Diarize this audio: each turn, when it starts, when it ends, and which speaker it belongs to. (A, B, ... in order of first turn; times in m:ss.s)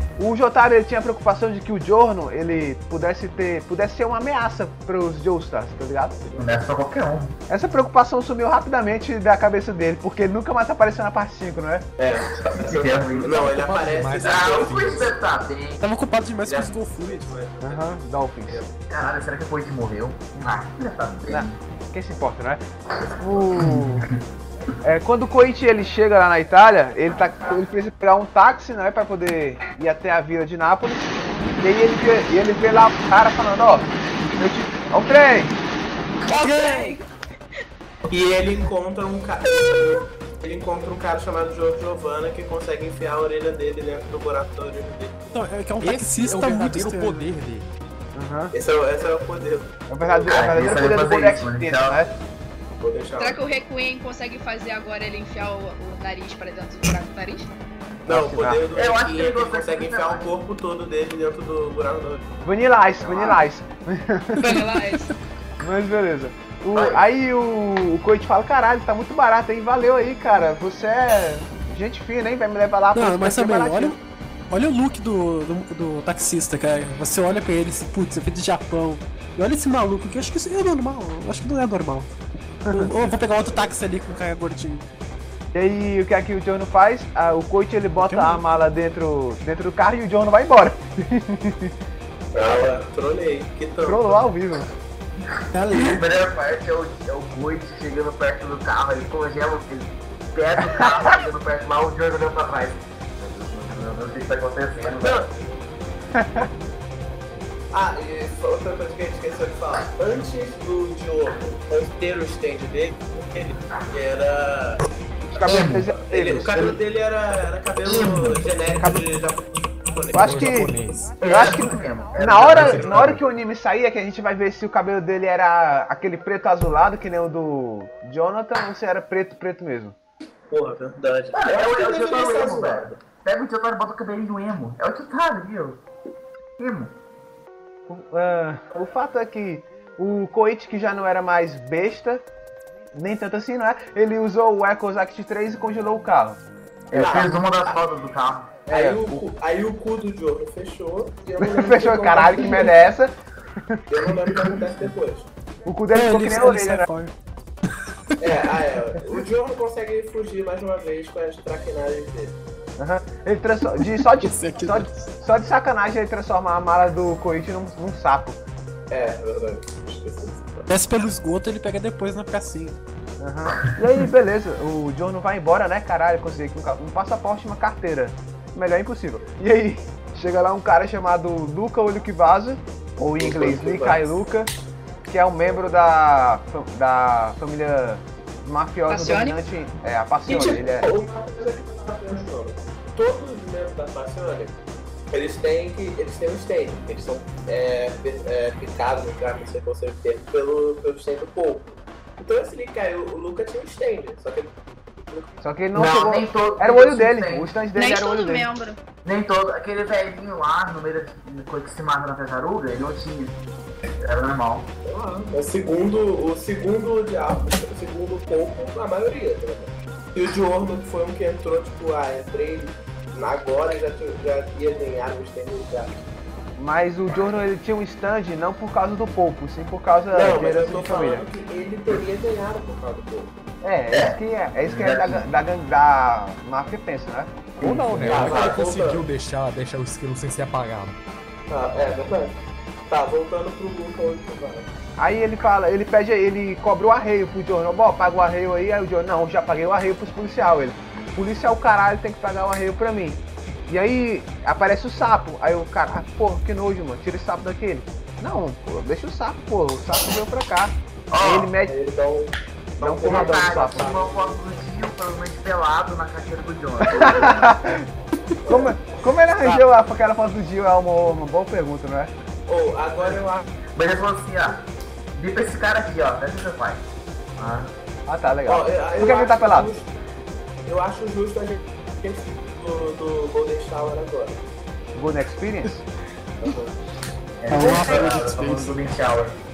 0:00.2-0:06.3 A
0:06.4-0:07.3 B
0:07.5-0:11.8 A
0:12.0-0:15.1 C
0:12.4-0:13.6 B
0:13.3-0:15.1 D
0:14.2-0:15.8 B
0:15.8-0:17.3 E
0:16.4-0:17.9 C
0:17.6-0:18.6 A
0:18.9-0:21.6 B
0:21.3-0:22.6 A
0:23.2-0:24.1 A
0:23.5-0:24.2 B
0:24.8-0:35.6 A
0:36.2-0:37.1 F
0:36.4-0:36.9 E
0:38.1-0:45.3 C
0:45.3-0:47.3 E
0:45.8-0:47.7 D
0:48.1-0:48.5 A
0:48.5-0:50.9 C
0:49.9-0:52.1 A
0:50.3-0:52.0 B
0:52.8-0:53.4 C
0:53.2-0:57.5 F
0:58.0-0:58.6 A
0:58.0-1:02.3 C
0:58.7-1:00.3 B
1:02.4-1:04.6 A
1:02.9-1:03.4 B
1:04.4-1:05.1 E
1:04.4-1:05.1 F
1:05.6-1:14.0 A
1:06.7-1:07.0 B
1:12.9-1:14.0 E
1:14.5-1:22.1 E
1:22.7-1:24.9 E
1:23.0-1:23.7 C
1:25.5-1:31.7 A
1:28.0-1:28.4 E
1:32.3-1:34.3 C
1:33.8-1:34.7 A
1:35.5-1:36.0 E
1:35.7-1:45.3 B
1:45.0-1:45.4 C
1:46.2-1:46.5 A
1:47.7-1:54.8 C
1:55.3-1:56.7 A
1:55.4-1:55.9 B
1:56.0-2:00.6 C
1:57.8-1:58.4 B
2:00.1-2:09.9 A
2:00.2-2:01.1 D
2:01.2-2:03.2 B
2:02.5-2:03.1 C
2:10.5-2:13.0 C
2:11.3-2:15.8 B
2:16.6-2:16.9 B
2:17.9-2:22.2 A
2:22.9-2:26.4 A
2:26.9-2:28.6 B
2:26.9-2:27.8 C
2:28.7-2:29.2 A
2:28.7-2:32.8 C
2:31.4-2:33.1 A
2:33.9-2:35.3 C
2:34.4-2:34.6 B
2:35.6-2:36.9 A
2:35.9-2:37.1 E
2:38.1-2:38.4 E
2:38.2-2:42.4 C
2:42.8-2:48.4 A
2:43.8-2:45.1 E
2:48.9-2:50.7 C
2:50.7-2:52.8 E
2:53.2-3:04.5 A
3:03.2-3:04.1 C
3:05.1-3:10.9 A
3:08.9-3:09.4 F
3:10.3-3:14.6 C
3:15.1-3:24.5 C
3:25.4-3:28.5 A
3:25.7-3:27.6 B
3:27.7-3:28.8 F
3:29.0-3:33.4 B
3:34.0-3:34.7 B
3:34.8-3:45.9 C
3:46.6-3:51.3 A
3:50.1-3:53.3 C
3:53.6-3:57.3 A
3:53.9-3:55.2 B
3:57.6-3:58.6 B
3:57.6-4:01.0 D
3:58.0-3:59.0 C
4:01.5-4:02.4 C
4:02.9-4:04.7 C
4:05.0-4:21.7 A
4:21.1-4:21.5 B
4:21.6-4:24.4 C
4:22.8-4:23.9 A
4:23.0-4:27.5 B
4:26.9-4:27.8 A
4:27.0-4:27.3 C
4:28.4-4:28.7 C
4:28.5-4:32.1 A
4:32.5-4:33.4 C
4:33.7-4:36.8 B
4:37.4-4:37.7 B
4:38.1-4:39.7 A
4:38.4-4:39.9 C
4:40.6-4:44.4 C
4:44.9-4:45.9 A
4:46.4-4:46.7 C
4:47.4-4:49.4 B
4:47.5-4:48.8 E